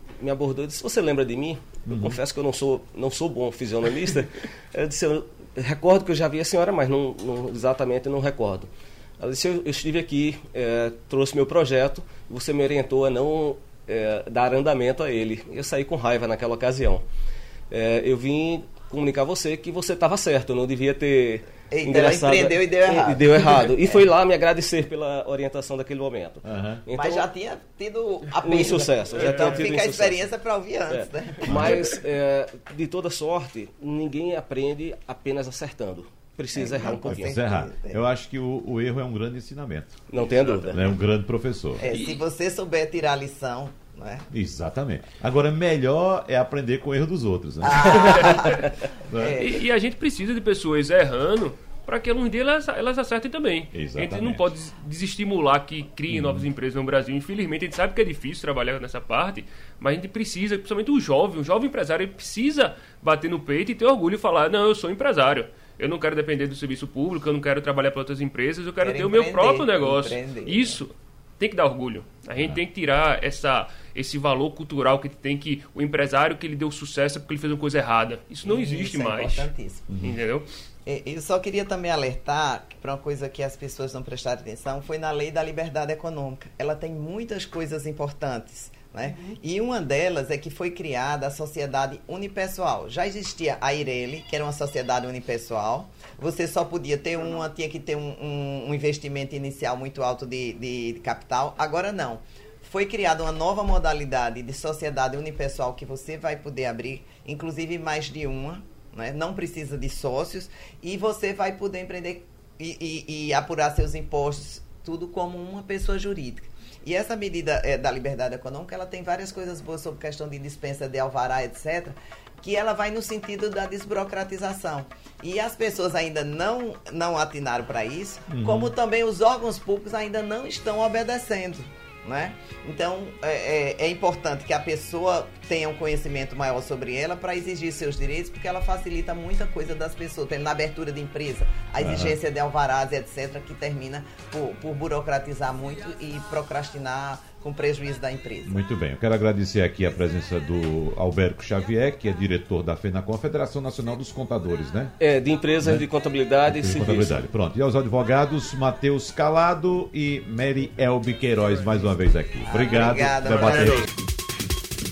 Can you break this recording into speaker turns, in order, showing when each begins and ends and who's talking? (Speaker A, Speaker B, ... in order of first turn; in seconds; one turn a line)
Speaker A: 0.2-17.0
Speaker B: 1.9-2.2
Speaker A: 17.7-27.3
Speaker C: 21.7-23.4
Speaker B: 26.4-26.8
Speaker C: 26.9-31.8
Speaker A: 28.4-30.3
Speaker D: 29.2-29.6
Speaker A: 30.9-37.4
Speaker B: 31.5-31.8
Speaker C: 36.5-38.0
Speaker B: 37.1-40.0
Speaker A: 40.1-40.8
Speaker B: 40.7-41.8
Speaker C: 41.8-44.3
Speaker D: 41.9-42.1
Speaker B: 44.3-49.4
Speaker C: 47.7-49.6
Speaker D: 49.4-79.5
Speaker B: 53.7-54.5
Speaker B: 56.1-56.5
Speaker C: 68.8-70.8
Speaker C: 78.4-79.9
Speaker B: 79.9-80.2
Speaker D: 80.0-80.5
Speaker C: 80.9-148.6
Speaker B: 128.3-128.7
Speaker B: 141.8-142.2
Speaker B: 148.4-154.9
Speaker A: 155.0-157.2
Speaker B: 156.4-163.9
Speaker C: 162.5-163.9